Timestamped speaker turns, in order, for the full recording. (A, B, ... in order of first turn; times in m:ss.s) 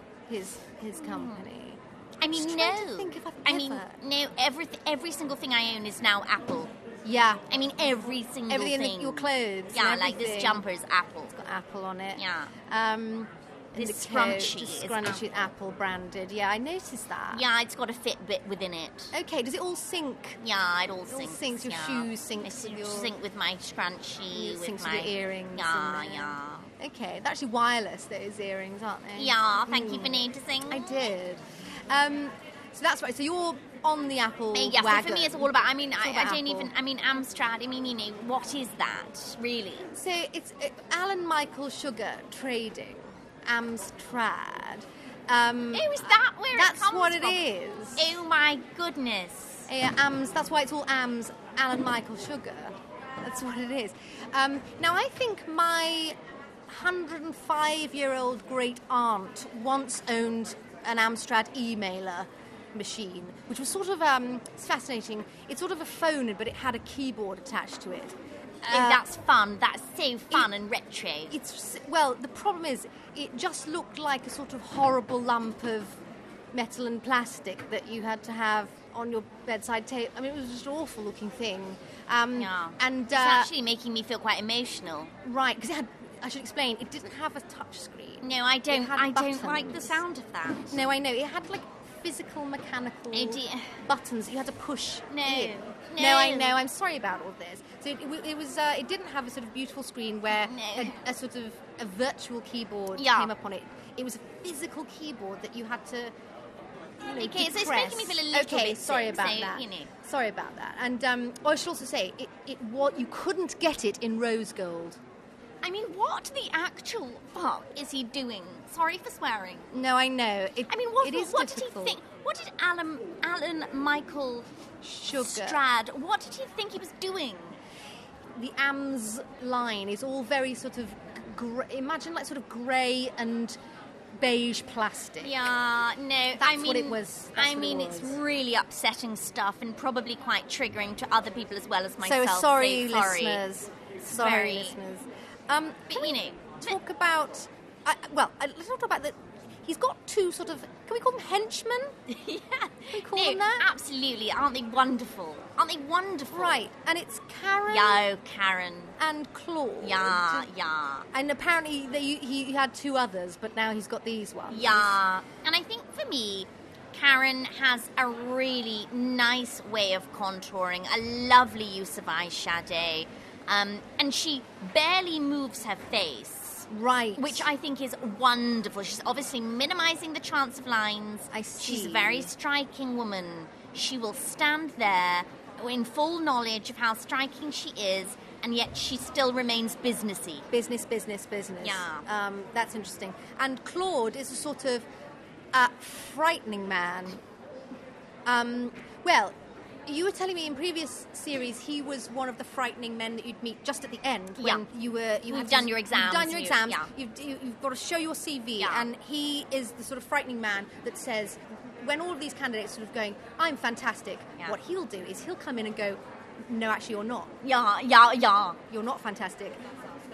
0:00.3-0:01.8 A
0:01.0-0:01.4 B
0:02.2-0:06.7 B
0:02.3-0:04.0 A
0:07.0-0:07.5 A
0:07.5-0:11.4 B
0:08.5-0:10.6 A
0:11.3-0:17.4 A
0:12.2-0:12.5 B
0:13.8-0:15.2 B
0:17.3-0:19.1 B
0:19.1-0:20.4 A
0:20.4-0:26.7 B
0:21.1-0:23.2 A
0:24.3-0:36.7 A
0:29.2-0:31.0 B
0:34.5-0:39.9 B
0:39.9-0:48.2 A
0:45.7-0:47.4 B
0:48.0-0:49.7 B
0:49.7-1:09.1 A
1:08.6-1:11.4 B
1:11.3-1:16.0 A
1:16.5-1:23.5 A
1:22.4-1:25.1 B
1:25.2-1:30.0 A
1:28.2-1:30.8 B
1:30.7-1:46.2 A
1:33.1-1:33.8 B
1:35.1-1:36.6 B
1:40.3-1:41.0 B
1:43.0-1:43.3 B
1:47.0-1:55.0 A
1:47.1-1:49.9 B
1:55.6-1:59.7 B
1:59.7-2:02.0 A
2:00.7-2:04.5 B
2:04.8-2:05.6 A
2:05.1-2:07.6 B
2:08.4-2:13.6 A
2:14.2-2:15.4 A
2:15.2-2:23.4 B
2:16.4-2:18.2 A
2:22.0-2:32.0 A
2:24.0-2:24.8 B
2:25.9-2:26.8 B
2:32.1-2:36.6 B
2:32.9-2:33.7 A
2:36.3-2:38.1 A
2:37.7-2:39.0 B
2:39.0-2:40.5 A
2:39.8-2:41.1 B
2:41.1-2:45.0 A
2:44.5-3:10.5 B
2:56.7-2:57.5 A
3:01.3-3:02.3 A
3:10.5-3:14.8 A
3:11.6-3:12.1 B
3:15.5-3:17.2 A
3:18.2-3:37.3 A
3:24.4-3:24.6 B
3:25.3-3:26.9 B
3:28.6-3:28.9 B
3:37.4-3:38.6 B
3:38.7-3:39.7 A